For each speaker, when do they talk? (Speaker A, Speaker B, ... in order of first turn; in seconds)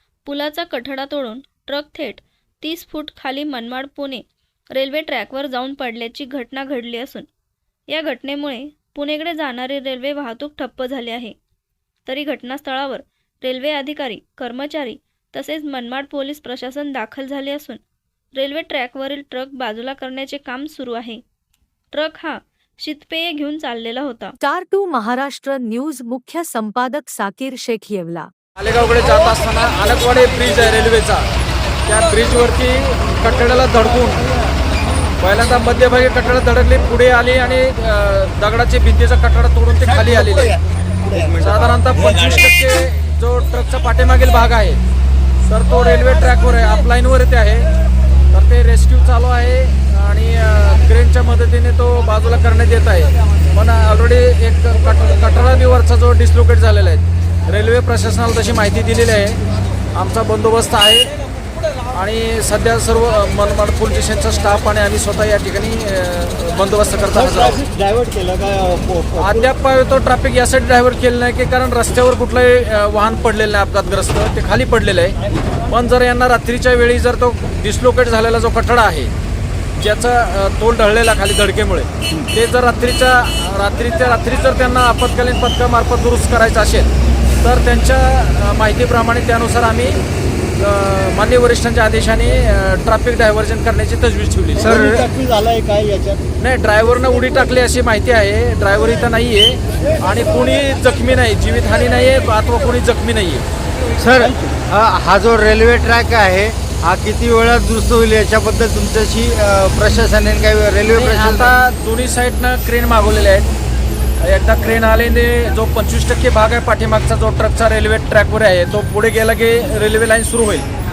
Speaker A: 0.2-7.3, 7.9-11.3, 12.0-17.8, 18.3-21.2, 21.9-24.4
Speaker B: 24.4-28.3
Speaker C: 28.6-31.2, 31.9-34.2, 35.2-40.6, 41.4-44.8, 45.5-47.7, 48.3-59.4, 59.9-61.1, 61.9-67.6, 69.2-75.2, 75.7-79.1, 79.8-86.9, 87.4-90.0, 90.6-94.8, 96.4-103.4, 110.9-113.5, 114.2-120.7
Speaker D: 67.1-69.5, 94.6-96.3, 104.2-104.6
Speaker E: 94.6-95.0, 104.0-111.5